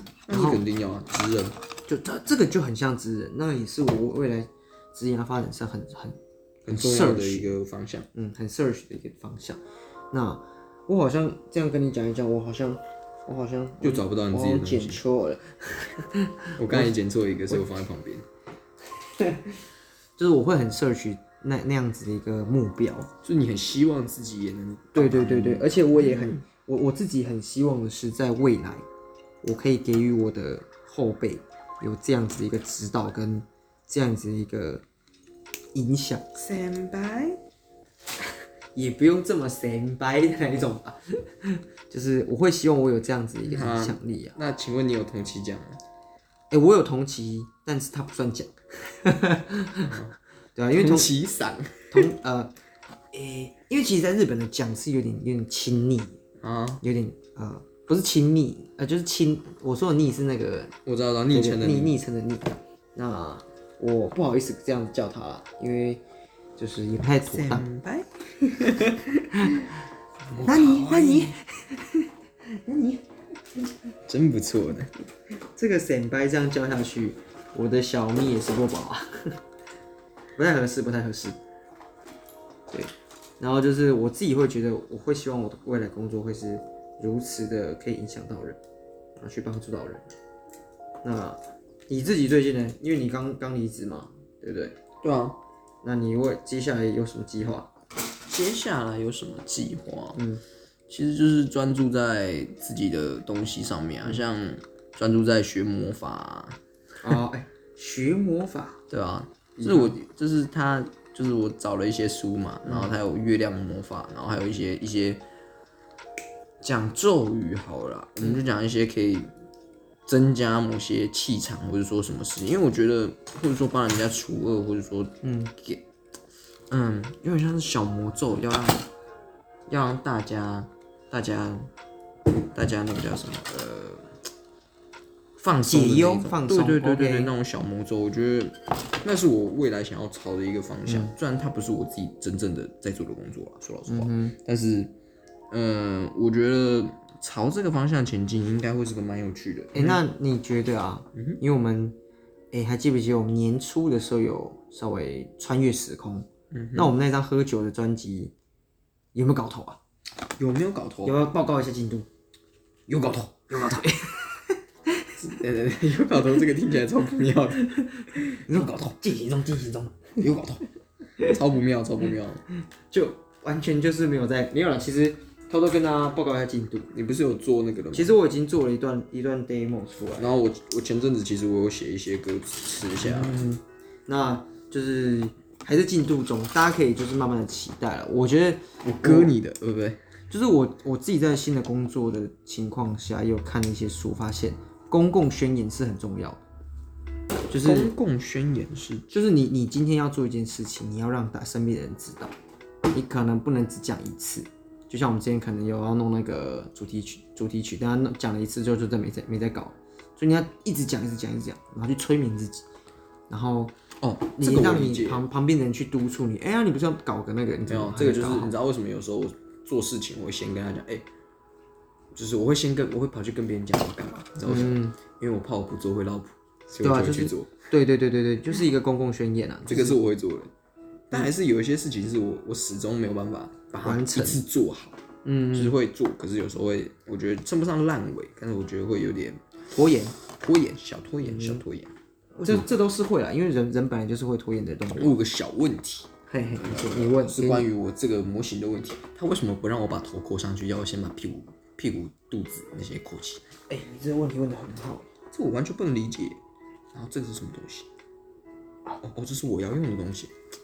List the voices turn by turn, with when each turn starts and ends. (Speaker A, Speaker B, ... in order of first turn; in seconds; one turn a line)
Speaker A: 0.2-1.6
Speaker B: 0.3-0.6
Speaker B: 1.9-7.6
Speaker A: 6.7-8.1
Speaker B: 8.1-16.9
Speaker A: 13.8-15.0
Speaker A: 16.6-18.3
Speaker B: 19.2-19.6
Speaker B: 20.2-23.1
Speaker A: 23.2-26.4
Speaker B: 24.9-28.9
Speaker B: 29.4-34.8
Speaker B: 35.7-36.4
Speaker A: 36.4-37.4
Speaker B: 38.8-44.4
Speaker A: 43.5-45.8
Speaker B: 46.5-49.9
Speaker A: 49.9-50.1
Speaker B: 50.6-51.1
Speaker A: 50.7-52.1
Speaker B: 51.9-52.5
Speaker B: 53.1-56.2
Speaker A: 56.4-56.8
Speaker B: 56.8-60.8
Speaker A: 60.9-62.0
Speaker B: 61.3-66.0
Speaker B: 66.6-67.7
Speaker A: 67.3-69.7
Speaker A: 70.2-71.4
Speaker B: 70.4-73.8
Speaker A: 74.1-74.9
Speaker B: 75.5-79.4
Speaker B: 80.4-81.4
Speaker B: 82.7-88.6
Speaker B: 89.2-90.1
Speaker B: 91.0-94.8
Speaker A: 95.0-95.4
Speaker B: 95.8-97.7
Speaker A: 98.3-100.2
Speaker B: 100.2-100.4
Speaker A: 100.9-107.2
Speaker B: 107.0-108.8
Speaker A: 108.9-115.2
Speaker B: 109.6-110.0
Speaker B: 112.7-112.9
Speaker A: 116.6-119.3
Speaker A: 120.1-125.8
Speaker B: 125.2-125.5
Speaker A: 126.7-128.9
Speaker A: 129.7-131.7
Speaker A: 132.5-134.2
Speaker A: 135.4-144.9
Speaker B: 135.7-137.3
Speaker B: 140.9-141.2
Speaker B: 143.9-144.4
Speaker A: 145.5-150.0
Speaker B: 149.7-152.0
Speaker A: 151.2-151.4
Speaker B: 152.5-158.3
Speaker A: 156.5-156.9
Speaker B: 159.1-159.8
Speaker A: 160.4-161.2
Speaker B: 161.0-162.1
Speaker A: 162.9-163.8
Speaker B: 163.1-165.2
Speaker A: 165.2-168.8
Speaker B: 168.3-170.2
Speaker A: 170.2-170.7
Speaker A: 171.2-172.4
Speaker B: 172.9-176.9
Speaker A: 176.9-178.2
Speaker B: 177.9-180.3
Speaker A: 180.2-183.5
Speaker B: 183.0-189.3
Speaker A: 188.8-190.0
Speaker B: 190.3-196.4
Speaker B: 197.5-197.9
Speaker A: 197.6-199.1
Speaker B: 199.1-202.4
Speaker B: 202.9-212.7
Speaker B: 213.3-213.8
Speaker A: 214.0-215.2
Speaker B: 214.4-218.5
Speaker A: 217.7-221.1
Speaker A: 222.1-227.7
Speaker B: 224.5-225.0
Speaker B: 226.7-230.0
Speaker A: 229.7-230.5
Speaker A: 231.1-235.0
Speaker B: 233.8-234.4
Speaker B: 235.2-235.8
Speaker A: 235.5-239.4
Speaker B: 239.7-240.2
Speaker A: 240.3-242.7
Speaker B: 241.2-241.6
Speaker B: 242.4-245.2
Speaker A: 244.9-253.6
Speaker B: 246.3-247.7
Speaker B: 253.7-255.1
Speaker A: 255.2-256.4
Speaker A: 256.9-257.9
Speaker A: 259.0-260.4